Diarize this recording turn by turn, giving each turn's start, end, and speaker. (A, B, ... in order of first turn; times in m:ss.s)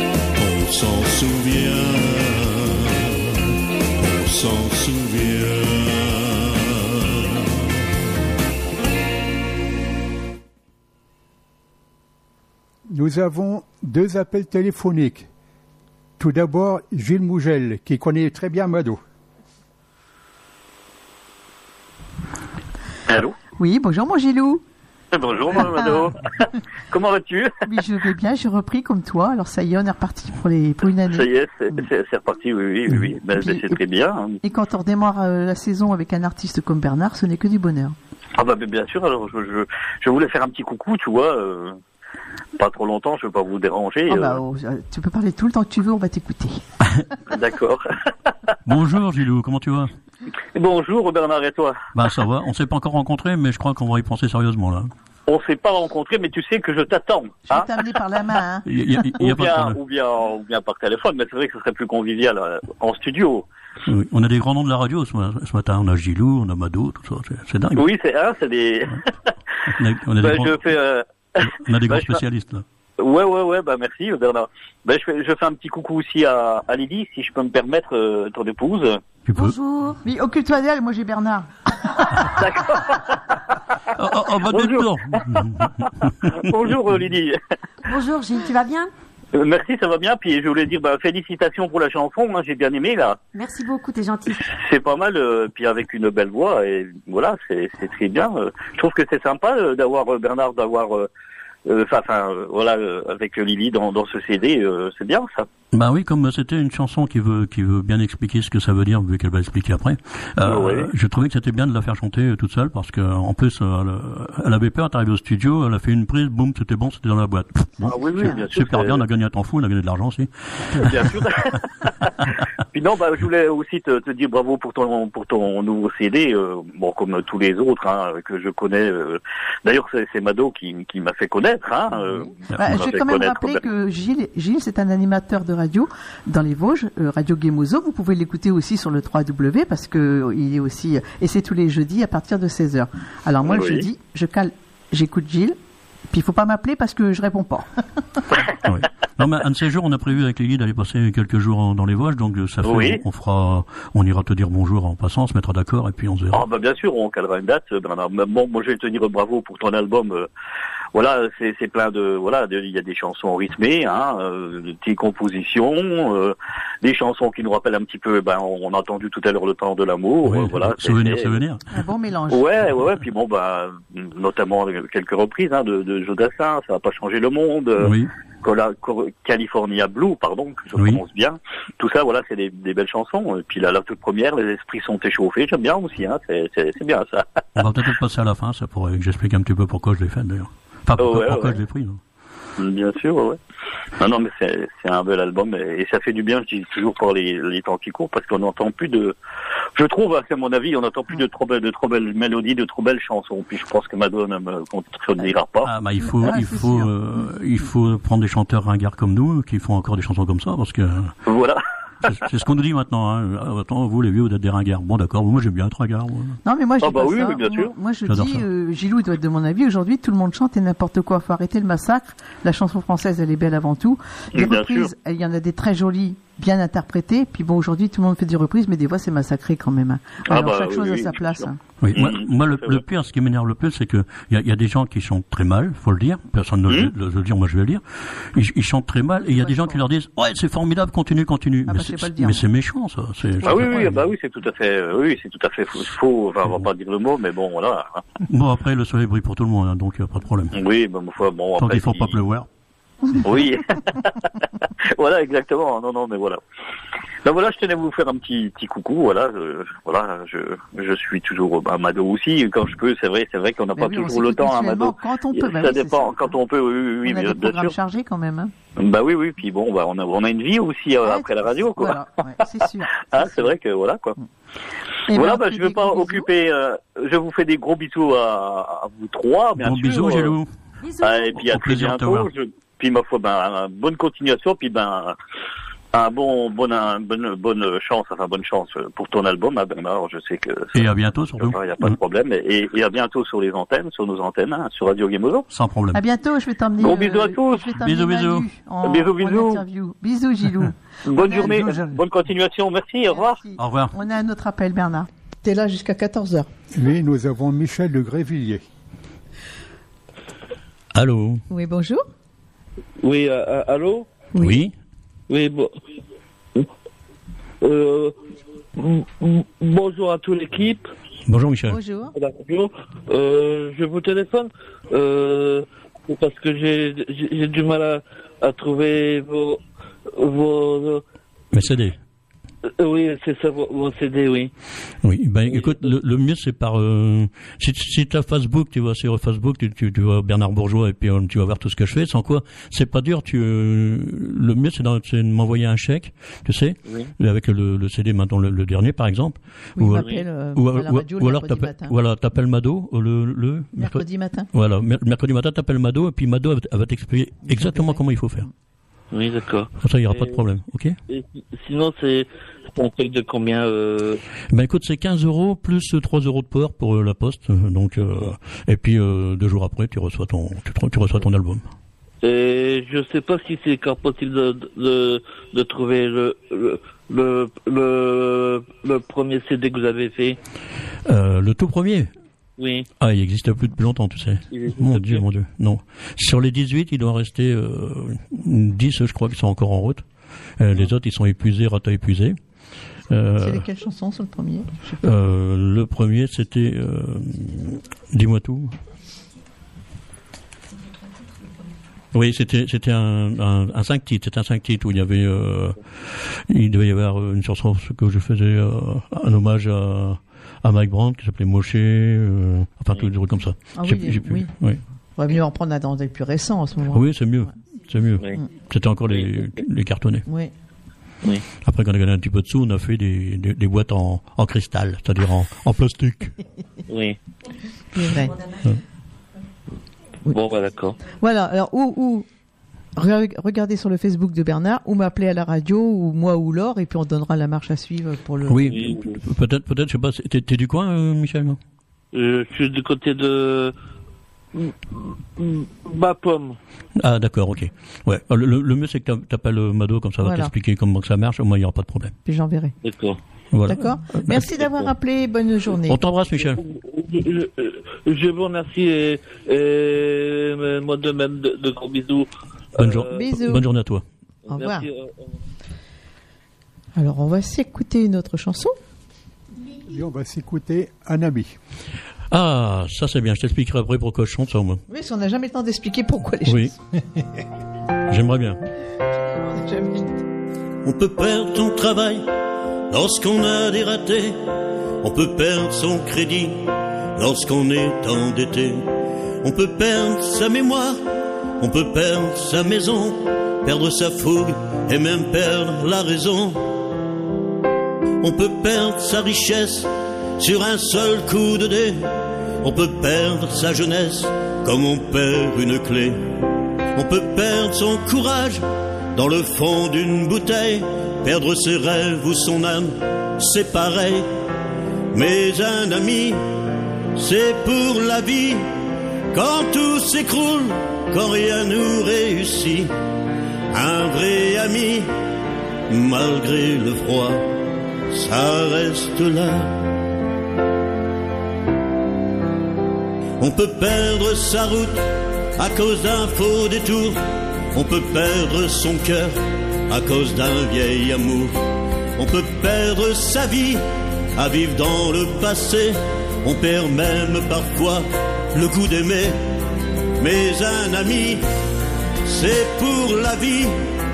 0:00.4-0:07.5 A
0:12.9-0:15.3 B
0:16.2-0:19.0 B
0:23.1-0:23.4 C
0:23.6-0:24.6 D
0:25.2-0:26.1 C
0:25.6-0:26.1 D
0:26.9-0:27.5 C
0:27.6-0:31.8 D
0:31.1-0:34.3 C
0:33.4-0:33.8 D
0:34.4-0:38.0 D
0:38.4-0:41.7 C
0:42.6-0:44.4 C
0:44.1-0:46.6 D
0:47.3-0:47.8 C
0:48.6-0:49.9 E
0:50.6-0:51.8 C
0:52.0-0:54.9 E
0:55.3-0:57.7 C
0:57.5-0:58.7 D
0:58.7-0:59.8 E
0:59.2-1:03.4 C
1:03.8-1:07.9 E
1:07.8-1:09.0 C
1:09.7-1:10.7 E
1:10.2-1:11.0 C
1:11.4-1:12.6 E
1:11.8-1:12.2 C
1:13.0-1:19.0 C
1:19.3-1:19.5 E
1:19.3-1:20.0 F
1:20.0-1:21.5 D
1:22.3-1:23.2 C
1:24.0-1:26.3 E
1:24.5-1:25.4 C
1:26.2-1:27.4 C
1:27.9-1:28.9 F
1:29.4-1:33.2 C
1:33.3-1:34.5 F
1:34.6-1:41.0 C
1:41.7-1:45.5 C
1:45.7-2:00.9 E
1:50.4-1:50.9 C
1:57.8-1:59.0 C
2:00.7-2:02.1 C
2:02.7-2:13.6 C
2:12.5-2:25.6 D
2:23.4-2:23.8 C
2:26.1-2:27.7 D
2:28.6-2:36.4 E
2:32.6-2:33.0 C
2:36.3-2:40.3 C
2:41.0-2:46.3 C
2:46.8-2:51.4 C
2:50.2-2:51.6 E
2:51.7-2:52.4 D
2:52.3-2:57.9 C
2:57.8-2:58.1 E
2:58.4-3:07.2 C
3:00.8-3:01.0 E
3:07.6-3:12.0 E
3:11.0-3:11.6 C
3:12.6-3:13.4 C
3:14.0-3:19.1 C
3:19.8-3:25.7 C
3:25.6-3:31.2 E
3:26.0-3:26.9 D
3:31.3-3:32.2 C
3:32.1-3:36.4 E
3:36.4-3:51.6 D
3:36.8-3:37.7 C
3:38.1-3:38.5 E
3:44.4-3:44.9 C
3:50.3-3:51.1 C
3:51.8-4:04.0 E
3:51.9-3:52.7 C
3:59.3-3:59.8 D
4:01.7-4:02.4 D
4:03.4-4:03.9 D
4:03.4-4:08.0 C
4:08.2-4:10.6 E
4:10.6-4:12.1 C
4:11.6-4:12.5 E
4:13.2-4:14.1 C
4:15.0-4:16.4 C
4:17.2-4:27.7 C
4:23.8-4:26.3 D
4:27.0-4:28.5 D
4:28.8-4:32.0 C
4:31.0-4:32.9 D
4:33.1-4:34.2 C
4:35.1-4:36.3 D
4:35.1-4:40.3 C
4:39.6-4:40.5 E
4:40.8-4:41.4 F
4:41.0-4:45.1 C
4:41.3-4:42.3 E
4:45.9-4:50.7 C
4:50.7-4:52.0 E
4:51.4-4:55.4 C
4:55.5-4:56.0 E
4:55.9-5:01.9 D
4:56.8-4:57.7 C
4:57.8-4:58.5 E
4:58.8-4:59.6 C
5:01.1-5:03.4 C
5:03.1-5:06.5 D
5:03.6-5:03.9 E
5:06.7-5:08.6 B
5:10.9-5:11.4 E
5:11.5-5:12.0 D
5:13.0-5:14.1 G
5:14.4-5:14.6 D
5:14.4-5:14.7 E
5:15.3-5:15.7 G
5:17.6-5:18.2 G
5:18.8-5:20.9 G
5:21.3-5:21.8 E
5:21.7-5:22.1 D
5:22.1-5:31.0 G
5:31.5-5:32.0 E
5:32.8-5:34.5 G
5:35.0-5:58.5 E
5:35.5-5:35.9 G
5:49.8-5:51.9 D
5:50.0-5:50.2 G
5:53.8-5:54.5 D
5:57.4-5:58.5 D
5:59.1-6:00.4 G
5:59.8-6:01.0 E
6:01.1-6:04.2 G
6:04.5-6:11.7 E
6:12.2-6:20.4 G
6:21.1-6:22.1 E
6:22.6-6:22.9 G
6:23.0-6:30.0 E
6:24.5-6:25.2 G
6:30.6-6:32.4 E
6:33.1-6:33.6 E
6:33.4-6:35.0 D
6:35.0-6:38.8 E
6:42.1-6:54.8 E
6:53.8-6:54.5 D
6:55.2-6:57.1 D
6:56.9-7:00.2 E
7:01.6-7:06.3 E
7:06.9-7:07.2 G
7:07.9-7:08.4 D
7:10.3-7:11.0 G
7:11.2-7:12.3 D
7:13.0-7:18.6 D
7:18.5-7:21.6 E
7:18.7-7:19.2 G
7:22.1-7:23.7 G
7:24.6-7:26.6 G
7:27.0-7:32.1 E
7:30.2-7:30.5 D
7:32.3-7:32.7 D
7:32.8-7:33.2 G
7:33.5-7:34.5 E
7:33.7-7:36.0 D
7:35.9-7:36.6 E
7:36.3-7:43.2 G
7:42.8-7:44.0 E
7:43.1-7:43.6 D
7:44.5-7:45.3 G
7:44.5-7:44.9 D
7:47.0-7:48.8 D
7:49.9-7:51.6 B
7:52.3-7:54.8 E
7:54.9-7:56.8 D
7:56.4-7:56.7 E
7:58.1-7:58.6 E
7:59.2-8:00.2 D
8:00.8-8:02.3 A
8:02.9-8:04.4 A
8:05.0-8:08.9 A
8:09.4-8:11.0 A
8:11.6-8:16.6 A
8:18.2-8:26.3 A
8:27.0-8:34.3 A
8:35.1-8:36.4 A
8:37.2-8:38.7 A
8:39.3-8:42.9 A
8:43.7-8:45.1 A
8:45.9-8:47.5 A
8:48.1-8:49.8 A
8:53.4-9:01.6 A
9:02.2-9:03.8 A
9:04.4-9:09.4 A
9:10.2-9:11.4 A
9:12.3-9:13.8 A